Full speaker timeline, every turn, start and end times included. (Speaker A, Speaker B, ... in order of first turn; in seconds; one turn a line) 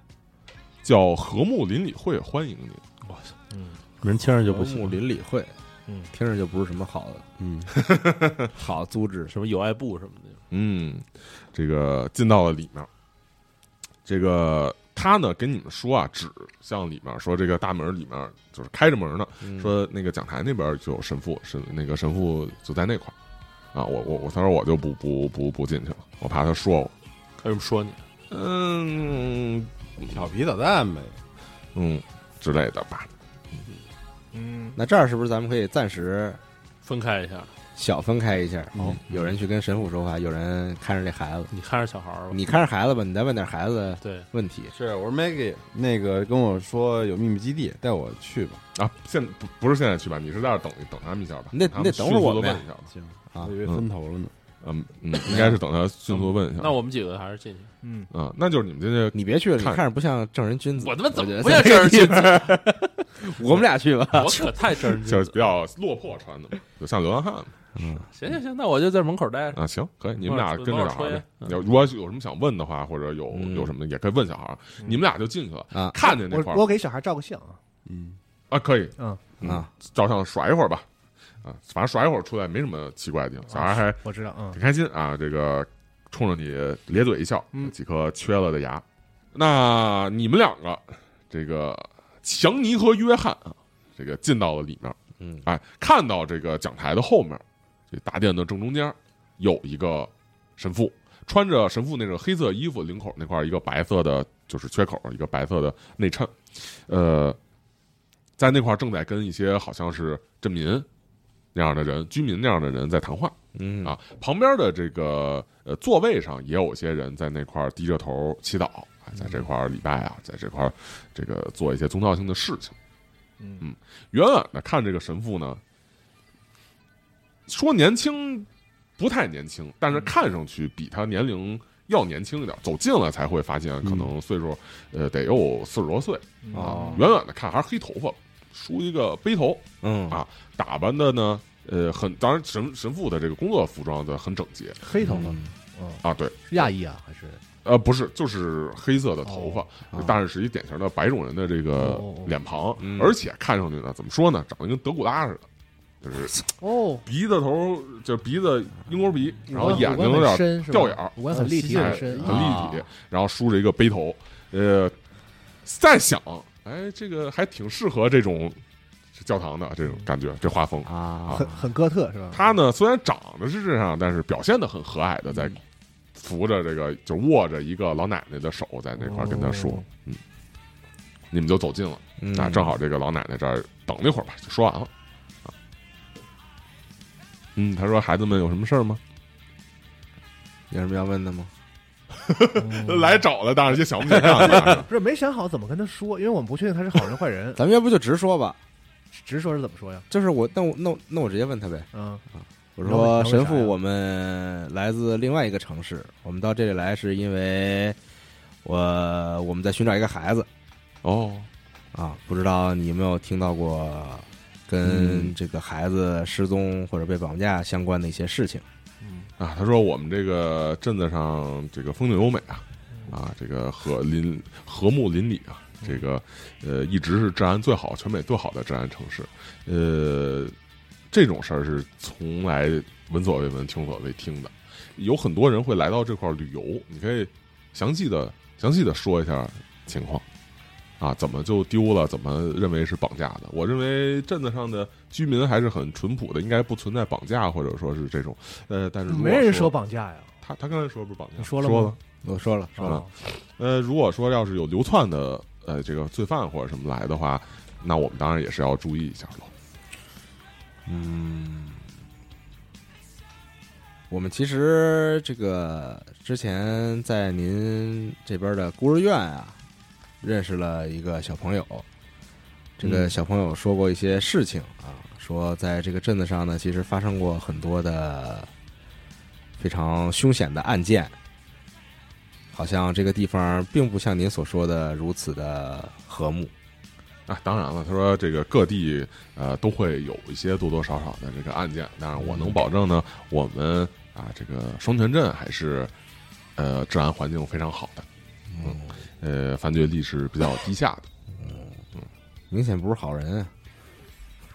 Speaker A: 0.8-2.8
Speaker B: 3.0-3.3
Speaker C: 3.5-3.8
Speaker B: 4.0-5.0
Speaker D: 4.4-5.6
Speaker D: 6.1-7.2
Speaker E: 7.4-7.7
Speaker A: 7.7-8.5
Speaker D: 8.5-9.3
Speaker B: 9.3-10.4
Speaker A: 10.5-12.9
Speaker A: 14.1-23.1
Speaker D: 19.4-19.7
Speaker A: 23.7-26.9
Speaker B: 27.4-28.0
Speaker A: 28.3-30.2
Speaker E: 30.1-31.2
Speaker A: 31.7-33.6
Speaker C: 34.3-34.8
Speaker D: 34.8-36.4
Speaker B: 36.8-37.5
Speaker D: 37.8-41.5
Speaker E: 38.7-39.0
Speaker B: 41.5-42.4
Speaker D: 42.3-44.7
Speaker B: 44.0-44.3
Speaker E: 44.7-48.6
Speaker A: 48.8-52.9
Speaker D: 51.5-52.6
Speaker E: 53.0-54.3
Speaker A: 54.6-56.8
Speaker D: 55.2-55.6
Speaker B: 56.1-57.7
Speaker C: 57.8-58.1
Speaker A: 58.1-59.8
Speaker D: 59.1-64.6
Speaker B: 60.8-62.5
Speaker B: 64.1-65.4
Speaker A: 65.0-67.5
Speaker D: 67.8-68.1
Speaker B: 68.1-69.6
Speaker A: 69.5-76.7
Speaker B: 70.2-71.5
Speaker D: 73.3-73.7
Speaker C: 76.0-77.6
Speaker E: 77.8-78.2
Speaker A: 78.5-80.8
Speaker D: 79.4-79.7
Speaker A: 81.4-84.0
Speaker C: 83.5-84.6
Speaker A: 84.5-107.4
Speaker D: 95.2-95.4
Speaker A: 108.4-110.9
Speaker A: 111.5-122.8
Speaker D: 113.5-113.9
Speaker A: 123.6-125.6
Speaker A: 127.5-144.8
Speaker E: 133.8-134.1
Speaker C: 136.4-137.1
Speaker D: 136.5-137.0
Speaker D: 139.8-140.2
Speaker C: 144.8-147.4
Speaker D: 145.0-145.5
Speaker A: 146.0-146.7
Speaker A: 147.6-155.4
Speaker C: 149.2-149.6
Speaker C: 151.7-152.3
Speaker D: 152.8-153.1
Speaker A: 156.0-156.4
Speaker C: 156.6-157.0
Speaker A: 157.0-164.9
Speaker C: 159.5-162.4
Speaker E: 161.3-162.6
Speaker D: 162.2-162.9
Speaker A: 165.6-168.6
Speaker A: 169.1-171.4
Speaker D: 170.8-171.6
Speaker C: 171.3-172.5
Speaker A: 172.3-175.6
Speaker A: 176.2-180.2
Speaker C: 179.1-179.8
Speaker A: 181.3-184.9
Speaker D: 182.2-182.8
Speaker A: 187.6-189.0
Speaker D: 190.7-191.5
Speaker A: 192.2-194.9
Speaker C: 192.6-193.2
Speaker D: 194.2-194.7
Speaker C: 194.5-197.6
Speaker D: 197.6-198.6
Speaker C: 199.1-200.0
Speaker D: 200.1-201.9
Speaker C: 201.9-202.2
Speaker D: 202.4-208.0
Speaker C: 202.8-203.8
Speaker D: 208.6-210.5
Speaker A: 211.0-211.5
Speaker D: 211.9-218.6
Speaker A: 214.8-215.3
Speaker C: 219.0-219.3
Speaker A: 219.4-230.5
Speaker C: 222.9-223.2
Speaker A: 231.1-240.2
Speaker A: 241.0-249.7
Speaker C: 249.1-250.3
Speaker A: 250.4-251.9
Speaker C: 251.4-252.0
Speaker D: 252.2-253.0
Speaker C: 252.8-253.1
Speaker A: 252.8-259.5
Speaker D: 260.9-261.8
Speaker D: 264.1-269.5
Speaker D: 270.2-271.9
Speaker D: 272.8-278.5
Speaker A: 272.8-273.1
Speaker D: 279.6-281.1
Speaker D: 282.5-286.5
Speaker A: 287.3-295.9
Speaker D: 292.2-292.6
Speaker A: 296.6-298.1
Speaker D: 298.5-299.0
Speaker A: 298.6-301.1
Speaker D: 301.3-301.9
Speaker D: 302.5-303.5